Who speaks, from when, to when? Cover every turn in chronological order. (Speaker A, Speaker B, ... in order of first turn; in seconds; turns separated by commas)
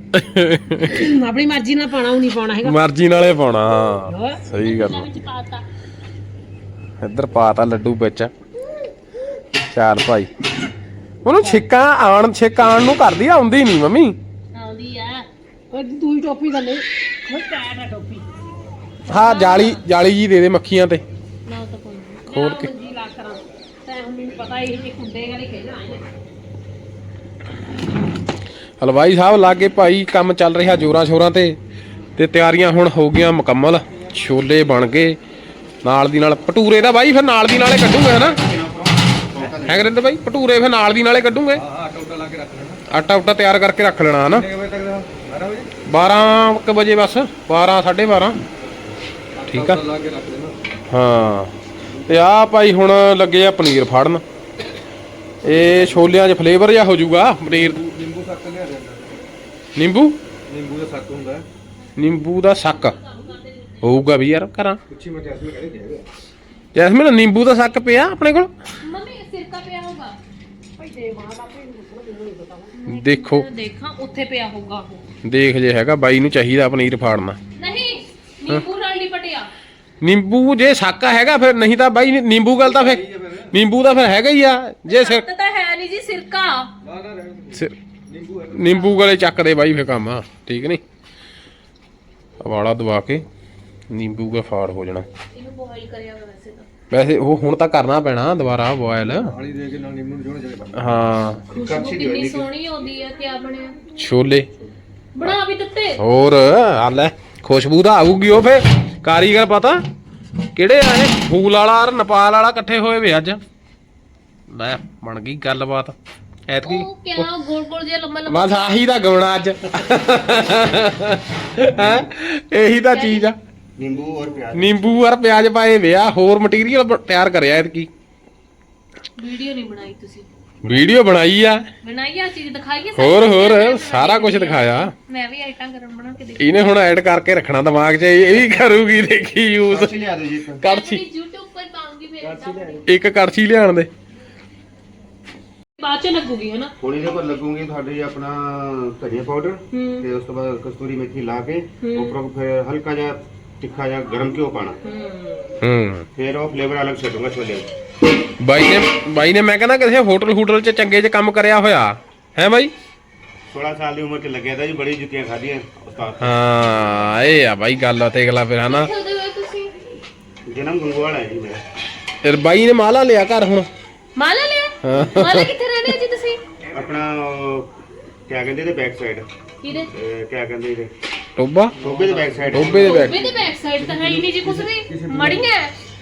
Speaker A: 0.1-1.1, Speaker B: 0.8-2.8, Speaker A: 2.6-5.1, Speaker B: 4.1-4.4, Speaker C: 4.5-5.6, Speaker A: 7.0-8.3, Speaker A: 9.7-10.3, Speaker A: 11.2-14.2, Speaker C: 14.5-15.3, Speaker B: 15.7-18.4, Speaker A: 19.1-21.0, Speaker C: 19.1-19.8, Speaker C: 21.4-22.6, Speaker B: 22.3-26.1, Speaker A: 22.3-22.7, Speaker A: 28.8-31.6, Speaker A: 32.1-35.2, Speaker A: 35.8-38.4, Speaker D: 38.3-39.9, Speaker A: 39.6-41.6, Speaker E: 41.5-42.8, Speaker A: 42.9-44.5, Speaker E: 44.3-45.7, Speaker A: 45.9-48.4, Speaker E: 49.3-50.6, Speaker A: 49.5-49.8, Speaker A: 50.9-51.5, Speaker A: 52.1-54.2, Speaker A: 55.4-57.8, Speaker E: 55.5-56.1, Speaker E: 57.5-59.2, Speaker A: 59.8-60.2, Speaker E: 60.5-61.5, Speaker A: 62.0-63.0, Speaker C: 62.8-64.0, Speaker A: 63.8-64.8, Speaker E: 64.9-66.0, Speaker A: 66.7-68.5, Speaker C: 68.8-70.2, Speaker B: 70.8-72.8, Speaker C: 72.7-75.0, Speaker A: 72.9-73.5, Speaker A: 75.2-77.4, Speaker C: 77.6-79.5, Speaker A: 80.0-85.2, Speaker E: 82.6-83.5, Speaker C: 84.9-86.7, Speaker E: 86.8-89.0, Speaker A: 88.5-90.8, Speaker A: 92.4-93.2, Speaker A: 93.9-95.1, Speaker C: 95.3-96.7, Speaker A: 96.9-99.3, Speaker E: 99.0-101.0, Speaker A: 100.7-101.4, Speaker D: 101.5-102.5, Speaker C: 101.5-103.8, Speaker A: 104.0-104.5, Speaker C: 105.2-106.0, Speaker A: 106.0-109.8, Speaker A: 110.5-113.4, Speaker A: 114.5-116.0, Speaker A: 116.5-117.3, Speaker C: 116.6-118.7, Speaker A: 118.3-123.3, Speaker D: 121.8-122.0, Speaker C: 122.6-123.3, Speaker D: 123.8-125.0, Speaker A: 124.5-127.9, Speaker C: 129.2-130.3, Speaker A: 130.6-131.7, Speaker C: 131.8-136.7, Speaker A: 133.0-134.9, Speaker A: 136.4-139.9, Speaker D: 139.7-140.6, Speaker A: 140.6-141.0, Speaker C: 140.6-142.9, Speaker E: 142.2-142.8, Speaker A: 142.8-143.9, Speaker C: 145.8-146.7, Speaker D: 146.8-154.8, Speaker C: 149.7-150.1, Speaker C: 151.8-152.2, Speaker C: 154.8-155.6, Speaker A: 155.6-156.1, Speaker D: 156.1-157.7, Speaker A: 158.4-162.7, Speaker D: 163.5-166.3, Speaker A: 166.2-168.9, Speaker C: 168.7-169.7, Speaker D: 170.4-171.6, Speaker A: 172.2-173.7, Speaker C: 174.2-176.4, Speaker A: 174.8-175.5, Speaker D: 176.7-177.7, Speaker D: 178.3-179.2, Speaker C: 179.6-179.9, Speaker D: 179.8-180.9, Speaker A: 181.4-181.8, Speaker E: 181.7-185.5, Speaker D: 181.8-183.2, Speaker A: 182.5-183.2, Speaker C: 182.8-185.7